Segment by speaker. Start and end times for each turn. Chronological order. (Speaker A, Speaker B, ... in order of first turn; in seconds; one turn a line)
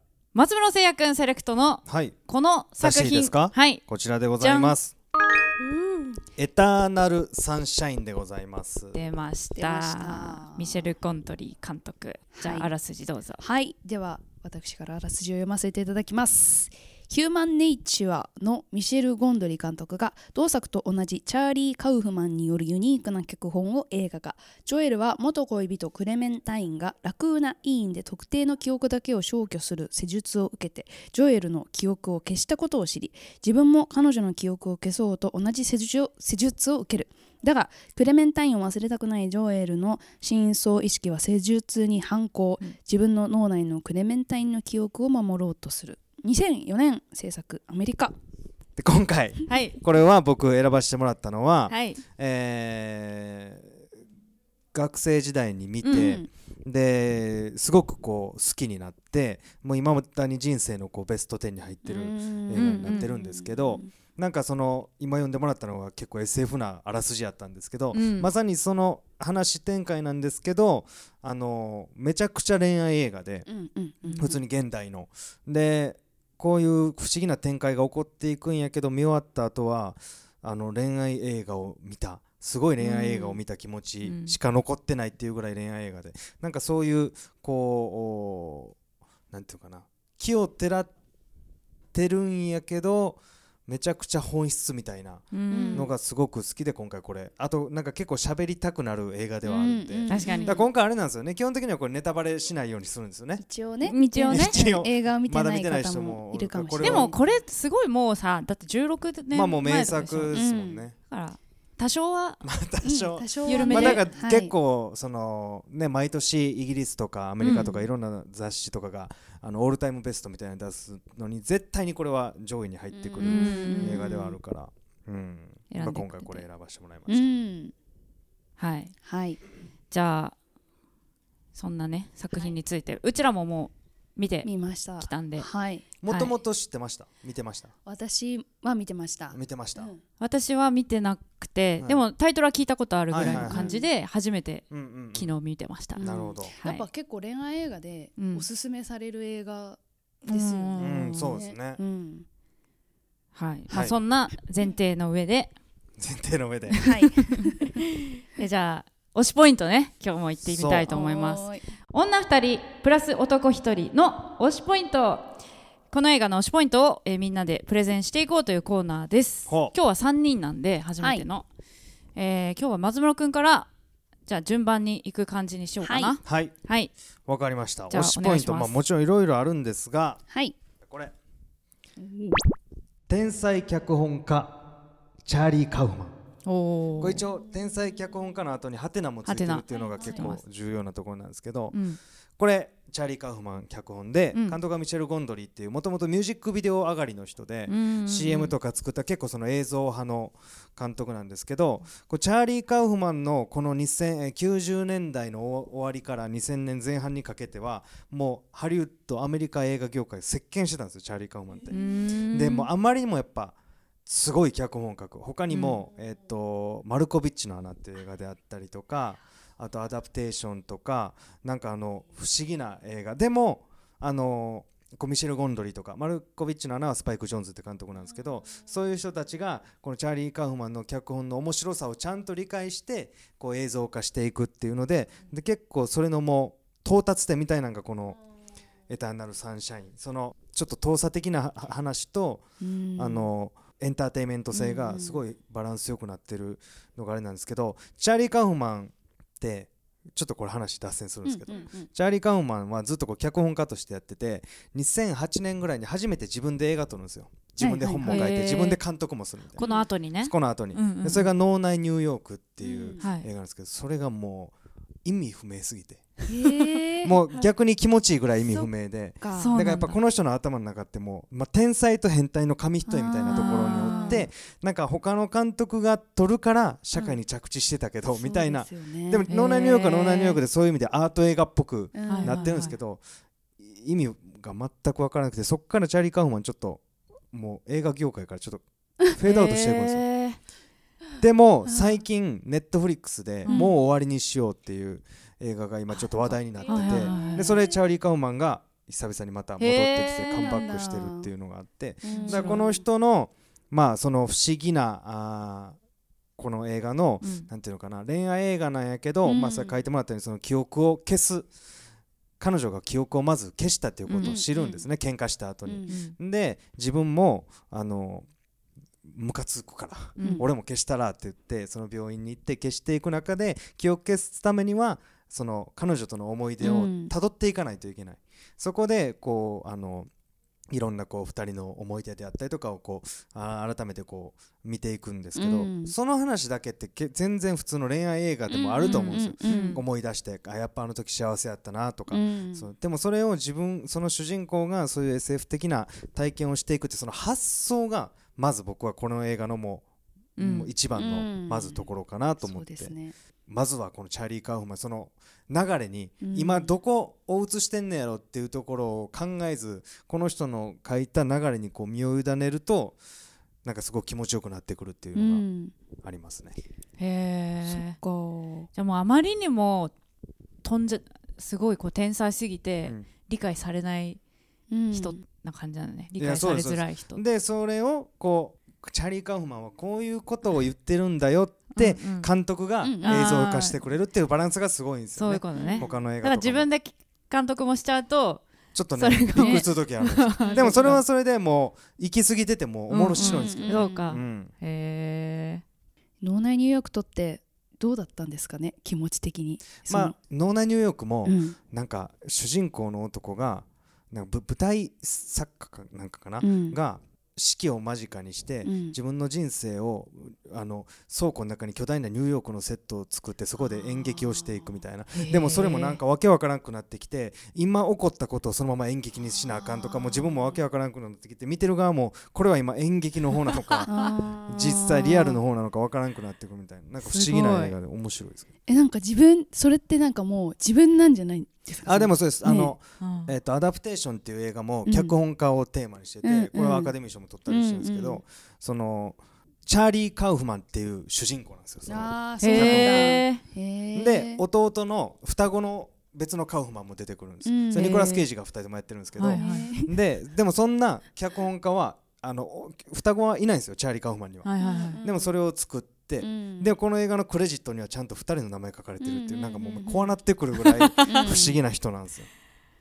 Speaker A: 0.3-3.8
Speaker B: 1.9-2.1
Speaker B: 2.8-4.9
Speaker A: 4.4-4.8
Speaker C: 5.7-6.1
Speaker B: 6.4-9.0
Speaker A: 8.9-13.4
Speaker C: 9.6-10.9
Speaker C: 12.3-12.7
Speaker C: 13.4-48.1
Speaker B: 48.8-53.8
Speaker A: 49.5-49.8
Speaker A: 51.7-52.0
Speaker B: 54.7-73.5
Speaker A: 55.8-56.2
Speaker C: 55.9-56.3
Speaker C: 61.9-63.9
Speaker A: 62.5-63.1
Speaker A: 67.9-68.3
Speaker C: 73.5-74.4
Speaker A: 74.1-74.3
Speaker B: 74.2-88.8
Speaker C: 83.0-83.3
Speaker A: 84.0-84.4
Speaker B: 89.3-90.9
Speaker B: 91.9-103.4
Speaker A: 95.3-95.9
Speaker C: 95.5-95.9
Speaker C: 99.5-100.6
Speaker A: 100.1-100.6
Speaker C: 103.4-107.2
Speaker A: 103.8-104.6
Speaker B: 104.3-107.2
Speaker A: 106.8-110.5
Speaker B: 109.3-111.0
Speaker C: 110.3-110.9
Speaker A: 111.0-112.4
Speaker B: 112.4-127.4
Speaker C: 112.8-114.5
Speaker A: 113.4-114.0
Speaker A: 117.4-117.8
Speaker C: 122.9-124.4
Speaker A: 123.2-124.0
Speaker A: 125.7-126.4
Speaker C: 127.1-127.7
Speaker A: 128.6-128.9
Speaker C: 129.0-129.4
Speaker A: 129.9-130.3
Speaker A: 131.5-135.5
Speaker C: 134.4-135.8
Speaker B: 136.0-137.7
Speaker A: 136.1-136.3
Speaker C: 137.9-140.0
Speaker B: 139.3-139.9
Speaker A: 140.2-146.8
Speaker B: 143.1-143.7
Speaker C: 143.2-143.9
Speaker B: 144.7-145.3
Speaker C: 145.9-152.2
Speaker B: 146.0-146.5
Speaker A: 148.2-148.4
Speaker A: 150.3-151.3
Speaker B: 150.8-151.8
Speaker A: 153.3-155.5
Speaker B: 156.0-156.8
Speaker A: 156.7-165.3
Speaker C: 156.8-157.8
Speaker B: 160.4-160.9
Speaker C: 160.9-161.6
Speaker A: 165.9-171.4
Speaker B: 169.5-169.7
Speaker A: 172.2-173.7
Speaker A: 174.2-176.9
Speaker C: 175.8-176.1
Speaker B: 176.2-176.5
Speaker B: 177.2-180.2
Speaker A: 177.9-178.8
Speaker C: 180.3-180.6
Speaker B: 180.8-181.1
Speaker B: 183.1-184.6
Speaker B: 185.2-186.1
Speaker A: 186.4-187.2
Speaker B: 187.0-191.8
Speaker A: 189.2-190.4
Speaker C: 189.7-190.2
Speaker A: 191.7-192.0
Speaker B: 192.4-211.7
Speaker A: 197.7-198.5
Speaker A: 211.7-212.7
Speaker B: 212.3-238.2
Speaker A: 215.5-215.8
Speaker B: 238.9-242.4
Speaker C: 242.6-243.3
Speaker B: 243.0-259.6
Speaker C: 244.5-245.2
Speaker C: 251.2-251.9
Speaker C: 257.6-258.2
Speaker A: 258.1-258.8
Speaker A: 259.6-261.3
Speaker C: 259.6-259.9
Speaker B: 260.2-264.5
Speaker C: 262.6-263.0
Speaker A: 263.0-263.3
Speaker B: 265.0-283.0
Speaker C: 266.3-267.1
Speaker C: 269.2-269.5
Speaker A: 269.4-270.0
Speaker C: 272.9-274.2
Speaker A: 273.3-274.2
Speaker C: 278.1-280.4
Speaker C: 281.9-282.7
Speaker A: 282.1-282.7
Speaker B: 283.6-288.6
Speaker B: 289.1-290.0
Speaker A: 289.2-290.4
Speaker B: 291.2-305.8
Speaker C: 291.6-292.0
Speaker C: 293.4-293.7
Speaker C: 295.9-297.7
Speaker A: 296.7-297.6
Speaker A: 299.6-300.8
Speaker C: 299.9-301.3
Speaker C: 302.0-302.8
Speaker A: 302.1-302.7
Speaker B: 306.4-311.5
Speaker A: 307.2-307.5
Speaker C: 309.2-309.8
Speaker B: 312.4-318.3
Speaker A: 314.1-314.4
Speaker C: 314.2-314.8
Speaker C: 315.6-315.9
Speaker A: 315.9-316.1
Speaker B: 319.0-330.1
Speaker A: 320.2-320.4
Speaker C: 320.2-320.4
Speaker C: 326.6-327.1
Speaker B: 330.7-349.8
Speaker C: 335.4-335.9
Speaker C: 338.5-339.8
Speaker A: 338.8-339.8
Speaker C: 342.1-342.7
Speaker A: 350.4-350.7
Speaker B: 350.4-352.9
Speaker C: 350.9-351.8
Speaker C: 352.4-353.1
Speaker B: 353.5-363.0
Speaker C: 356.2-356.7
Speaker B: 363.6-365.4
Speaker C: 365.1-365.7
Speaker B: 366.0-366.6
Speaker A: 367.0-368.0
Speaker C: 367.6-368.7
Speaker A: 368.7-369.9
Speaker A: 370.6-374.2
Speaker C: 374.7-375.2
Speaker A: 374.9-377.2
Speaker B: 376.2-386.7
Speaker A: 381.7-382.3
Speaker C: 382.8-383.4
Speaker A: 383.0-383.8
Speaker A: 385.1-391.0
Speaker C: 385.5-385.9
Speaker B: 388.7-394.5
Speaker C: 389.4-389.6
Speaker C: 390.4-390.9
Speaker A: 392.9-395.6
Speaker C: 393.2-394.1
Speaker C: 396.2-400.1
Speaker B: 399.9-423.9
Speaker C: 401.2-401.6
Speaker C: 406.4-406.8
Speaker C: 408.6-408.9
Speaker C: 413.6-414.7
Speaker A: 415.1-416.0
Speaker C: 419.3-420.6
Speaker A: 423.5-424.1
Speaker C: 423.9-424.8
Speaker B: 424.5-428.5
Speaker A: 427.0-427.8
Speaker C: 428.7-432.7
Speaker B: 431.9-443.2
Speaker A: 433.0-433.3
Speaker C: 434.9-435.1
Speaker C: 436.2-436.9
Speaker C: 437.5-438.2
Speaker C: 441.9-444.4
Speaker A: 442.4-443.4
Speaker B: 443.9-454.5
Speaker C: 447.4-448.2
Speaker A: 449.2-449.7
Speaker C: 449.3-449.9
Speaker A: 454.4-455.0
Speaker C: 454.6-455.3
Speaker B: 455.0-462.3
Speaker C: 456.2-456.7
Speaker C: 459.0-460.1
Speaker A: 460.6-461.4
Speaker C: 461.1-461.6